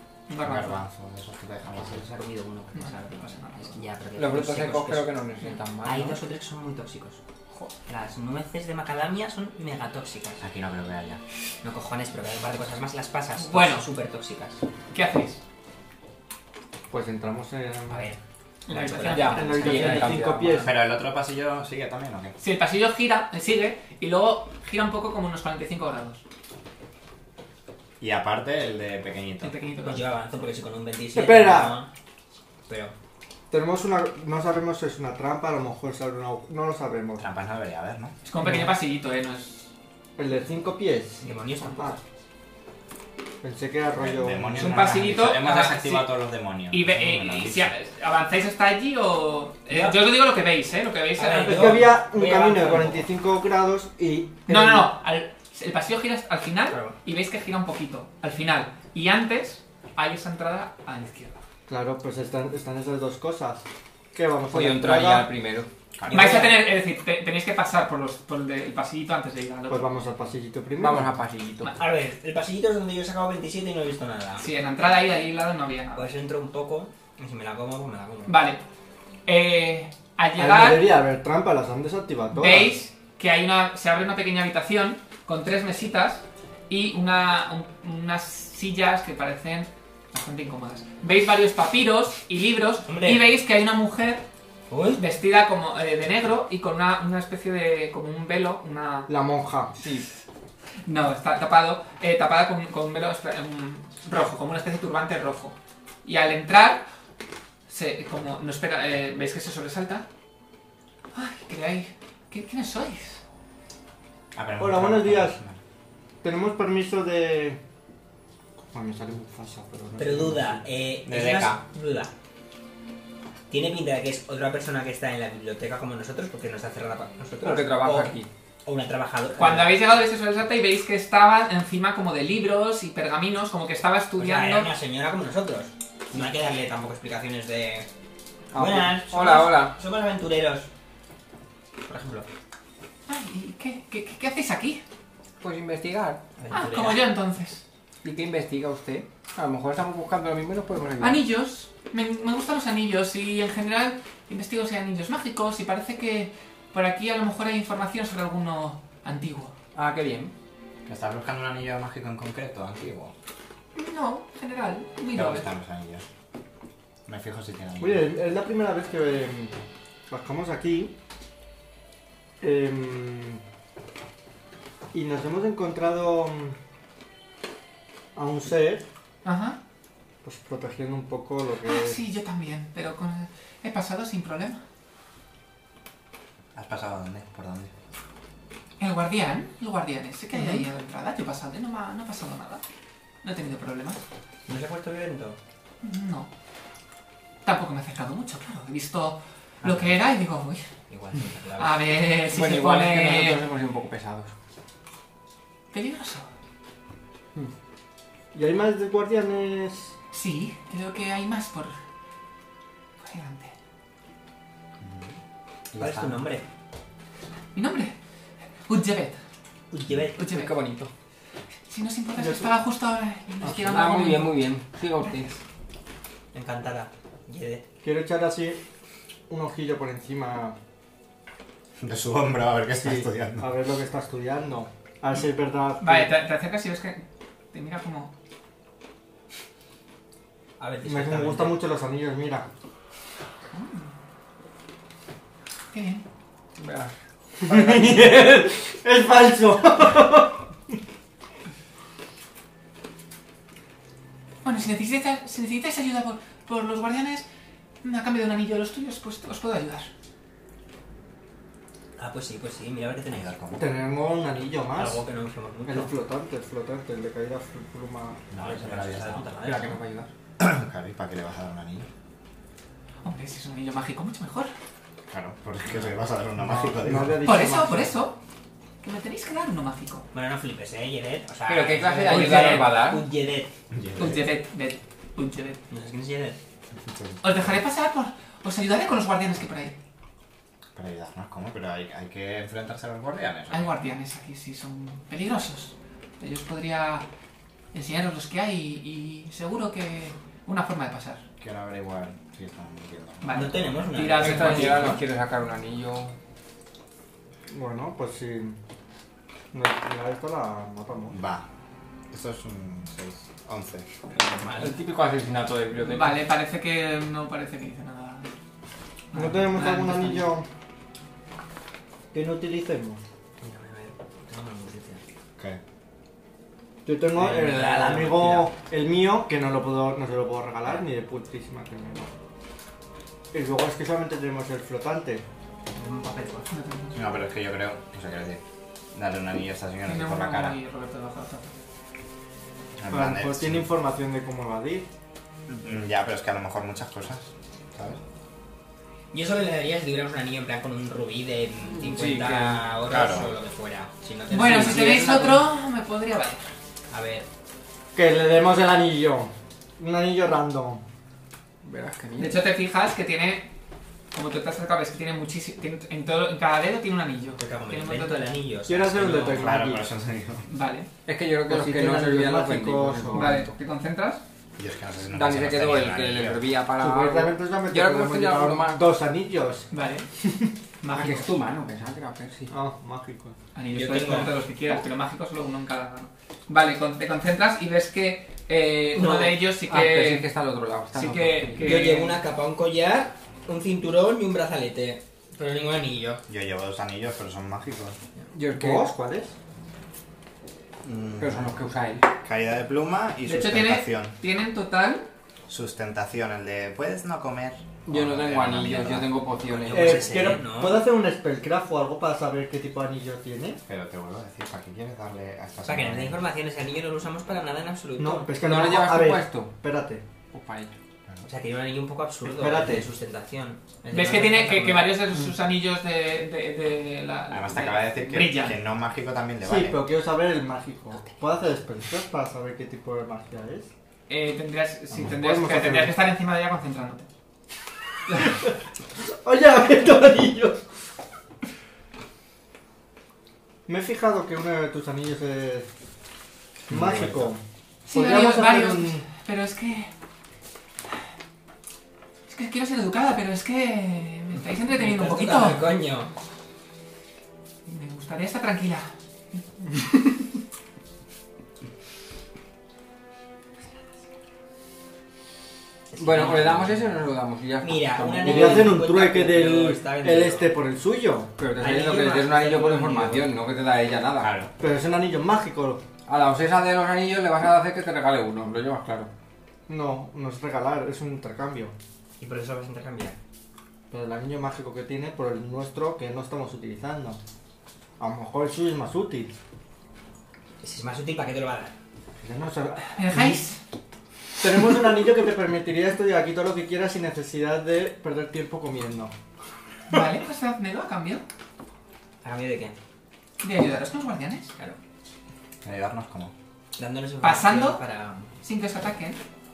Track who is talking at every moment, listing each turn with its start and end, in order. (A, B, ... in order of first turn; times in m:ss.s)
0:00.3-0:00.8 A
0:00.4-0:02.1 B
0:01.8-0:05.2 C
0:02.7-0:03.8 A
0:04.2-0:06.2 D
0:05.8-0:07.2 C
0:07.9-0:10.4 C
0:10.4-0:11.2 B
0:11.6-0:14.6 C
0:13.4-0:13.9 A
0:14.9-0:15.4 A
0:16.9-0:18.1 E
0:17.9-0:20.2 C
0:18.7-0:20.0 A
0:19.0-0:20.7 D
0:19.2-0:20.8 E
0:20.6-0:22.4 B
0:22.4-0:26.2 A
0:28.0-0:29.6 B
0:29.4-0:30.1 A
0:29.8-0:31.9 C
0:31.2-0:31.8 E
0:32.7-0:32.9 C
0:33.5-0:37.3 E
0:37.2-0:38.2 B
0:38.2-0:39.7 A
0:38.4-0:38.7 E
0:40.2-0:42.0 E
0:41.2-0:42.0 C
0:43.4-0:45.0 E
0:44.0-0:47.7 B
0:44.6-0:46.1 A
0:46.7-0:51.9 A
0:49.7-0:50.0 C
0:51.2-0:53.1 C
0:51.4-0:54.9 E
0:54.5-1:01.4 A
0:56.7-0:57.0 C
1:01.7-1:05.3 E
1:04.5-1:05.7 D
1:06.0-1:06.5 B
1:06.1-1:09.9 A
1:06.1-1:06.5 C
1:09.7-1:11.1 E
1:10.8-1:11.7 D
1:11.8-1:14.5 C
1:14.4-1:16.1 A
1:15.9-1:18.4 C
1:18.3-1:18.6 A
1:19.3-1:20.9 A
1:20.4-1:22.7 E
1:22.3-1:34.2 A
1:32.9-1:33.3 C
1:34.7-1:35.0 C
1:34.9-1:39.1 A
1:39.1-1:39.7 E
1:39.8-1:40.1 D
1:40.8-1:46.8 A
1:47.7-1:50.1 A
1:51.1-1:53.2 A
1:54.4-1:55.6 B
1:54.6-1:55.4 E
1:56.2-1:57.6 E
1:58.7-2:00.7 E
2:00.0-2:02.1 C
2:01.1-2:01.6 B
2:03.5-2:08.1 C
2:07.4-2:08.3 D
2:08.6-2:09.8 C
2:09.4-2:14.7 A
2:14.2-2:17.9 C
2:18.5-2:19.8 D
2:18.5-2:20.7 C
2:21.8-2:22.3 C
2:23.1-2:24.8 A
2:25.4-2:26.2 D
2:26.4-2:27.0 C
2:26.5-2:27.6 A
2:28.0-2:31.2 D
2:31.0-2:39.5 A
2:39.7-2:40.3 D
2:40.9-2:43.1 B
2:43.8-2:45.5 A
2:45.1-2:46.1 B
2:47.1-2:48.1 B
2:47.8-2:49.6 E
2:50.1-2:50.9 E
2:52.4-2:53.4 E
2:54.9-2:56.6 E
2:58.2-2:58.8 E
2:59.2-2:59.6 A
3:00.2-3:02.0 E
3:01.6-3:04.6 A
3:06.6-3:07.7 B
3:08.8-3:12.6 A
3:13.2-3:14.0 A
3:14.5-3:15.4 C
3:15.8-3:16.3 A
3:17.4-3:20.7 A
3:20.9-3:21.9 C
3:21.6-3:23.4 A
3:22.3-3:24.3 D
3:25.7-3:26.3 A
3:28.3-3:29.9 E
3:30.1-3:31.8 A
3:33.0-3:33.5 A
3:34.8-3:35.2 B
3:35.7-3:36.2 B
3:35.8-3:36.4 C
3:37.6-3:38.0 A
3:38.7-3:39.2 A
3:39.7-3:40.3 C
3:40.2-3:40.5 A
3:40.2-3:40.9 D
3:41.7-3:44.4 A
3:42.2-3:42.5 E
3:43.4-3:43.9 E
3:43.6-3:45.4 D
3:46.3-3:47.6 C
3:47.8-3:48.6 E
3:49.3-3:50.6 E
3:51.8-3:53.5 B
3:52.8-3:56.2 E
3:55.8-3:58.1 A
4:00.6-4:01.6 C
4:00.8-4:02.5 E
4:03.5-4:03.9 A
4:05.7-4:06.0 A
4:06.6-4:06.9 D
4:07.4-4:10.8 E
4:14.4-4:17.3 A
4:17.8-4:19.9 A
4:22.0-4:23.3 C
4:23.1-4:23.6 B
4:23.6-4:25.0 E
4:24.7-4:25.9 C
4:25.7-4:28.2 E
4:28.3-4:29.3 B
4:28.4-4:29.8 C
4:29.4-4:30.1 D
4:30.4-4:31.9 B
4:33.0-4:34.5 A
4:35.1-4:37.4 B
4:36.4-4:38.0 E
4:37.2-4:38.2 A
4:38.8-4:40.0 A
4:40.1-4:43.5 C
4:41.5-4:43.0 D
4:42.0-4:42.7 A
4:43.7-4:44.3 B
4:44.0-4:45.6 A
4:45.7-4:46.4 C
4:46.8-4:47.5 B
4:47.2-4:49.8 A
4:50.8-4:53.8 B
4:53.5-4:57.1 A
4:57.7-5:01.2 A
5:01.4-5:03.7 B
5:03.2-5:05.0 A
5:03.3-5:05.0 C
5:04.2-5:06.2 D
5:07.5-5:08.6 E
5:09.5-5:11.2 E
5:11.1-5:11.4 B
5:12.1-5:13.9 B
5:14.1-5:14.8 C
5:14.6-5:16.2 D
5:15.8-5:18.3 A
5:19.1-5:20.3 A
5:19.1-5:20.5 E
5:22.1-5:23.0 E
5:23.4-5:25.0 C
5:26.8-5:32.1 E
5:27.2-5:28.5 C
5:33.3-5:35.2 E
5:35.8-5:36.5 C
5:36.5-5:37.1 A
5:36.9-5:38.4 B
5:38.9-5:40.6 B
5:39.9-5:41.5 A
5:42.8-5:43.7 B
5:42.9-5:44.9 E
5:45.5-5:48.0 B
5:49.1-5:55.1 C
5:51.7-5:52.7 D
5:52.9-5:53.4 B
5:54.3-5:56.5 A
5:54.3-5:55.4 D
5:56.9-5:57.3 C
5:58.0-6:00.8 E
6:01.6-6:02.5 D
6:02.2-6:03.5 A
6:04.1-6:08.4 A
6:07.4-6:09.5 C
6:08.7-6:09.8 E
6:09.0-6:10.5 B
6:10.5-6:10.9 A
6:11.1-6:13.5 D
6:11.5-6:13.4 E
6:13.1-6:14.2 A
6:14.6-6:16.4 B
6:15.1-6:18.8 D
6:16.8-6:19.7 E
6:19.7-6:20.1 A
6:20.2-6:20.5 E
6:20.8-6:21.3 A
6:20.9-6:22.5 D
6:22.5-6:23.4 E
6:23.6-6:30.3 A
6:23.7-6:24.3 C
6:28.9-6:29.4 C
6:29.7-6:31.9 D
6:30.9-6:32.2 A
6:31.6-6:36.2 C
6:36.3-6:38.0 B
6:38.3-6:38.9 D
6:38.5-6:39.3 E
6:40.8-6:41.6 B
6:41.2-6:42.1 D
6:42.2-6:44.2 B
6:43.3-6:45.0 A
6:45.5-6:49.1 B
6:47.9-6:50.2 D
6:49.5-6:50.8 C
6:49.7-6:53.6 E
6:53.7-6:56.2 B
6:55.6-6:58.3 C
6:58.0-7:00.0 E
6:58.4-6:59.5 D
7:00.3-7:00.8 D
7:01.2-7:05.0 C
7:02.2-7:02.9 E
7:03.9-7:08.6 A
7:07.3-7:09.8 B
7:09.4-7:13.7 E
7:14.1-7:17.1 A
7:14.9-7:16.0 E
7:18.1-7:20.6 E
7:23.7-7:25.7 E
7:26.7-7:29.1 E
7:26.7-7:27.3 B
7:27.9-7:29.9 A
7:32.3-7:35.7 A
7:34.7-7:36.1 C
7:37.7-7:39.4 A
7:45.9-7:47.0 C
7:46.0-7:48.8 D
7:47.6-7:50.5 C
7:48.2-7:51.3 E
7:51.4-7:54.3 D
7:51.6-7:53.3 C
7:54.2-7:54.5 B
7:54.6-7:55.8 E
7:56.1-7:59.1 D
7:59.7-8:01.7 E
8:02.2-8:03.2 C
8:03.9-8:07.2 E
8:08.0-8:09.3 E
8:10.6-8:11.7 C
8:12.2-8:13.4 E
8:12.9-8:13.6 A
8:14.4-8:19.1 E
8:19.9-8:21.2 A
8:22.2-8:22.8 C
8:23.4-8:24.5 A
8:25.6-8:26.3 B
8:26.8-8:28.3 C
8:27.2-8:27.8 A
8:28.4-8:29.2 A